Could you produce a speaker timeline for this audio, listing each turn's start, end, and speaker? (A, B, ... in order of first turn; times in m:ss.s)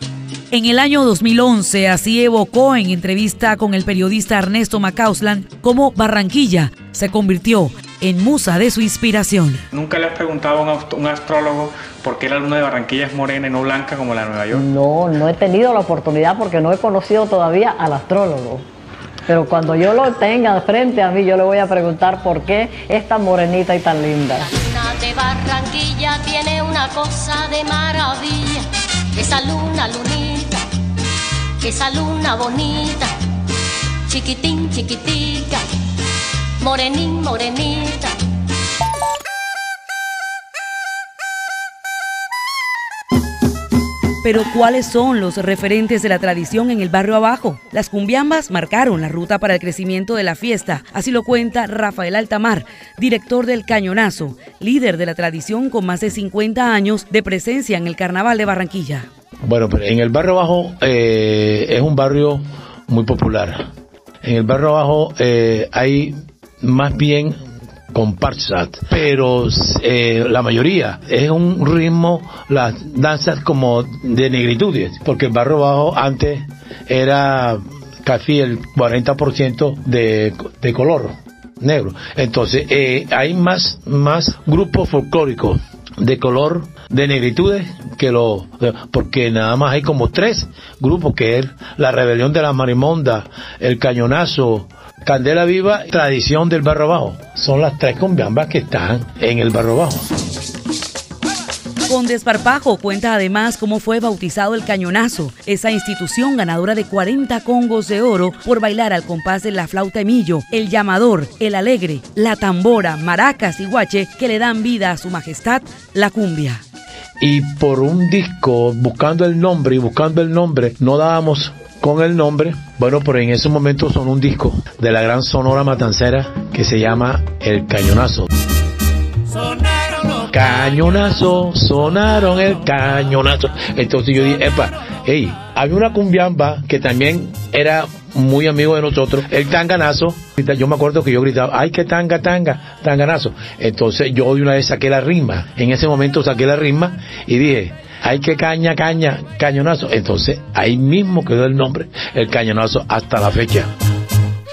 0:00.5-0:09.6 A
0:09.7-0:14.7 B
0:14.5-0:18.7 C
0:19.3-0:24.5 C
0:24.4-0:30.6 D
0:31.6-0:33.1 D
0:34.1-0:35.6 D
0:36.6-0:38.1 D
0:44.2-0:59.1 A
0:59.4-1:03.6 E
1:04.2-1:07.3 E
1:07.9-1:40.1 E
1:41.9-1:56.6 A
1:57.2-2:08.3 E
2:10.1-2:33.7 E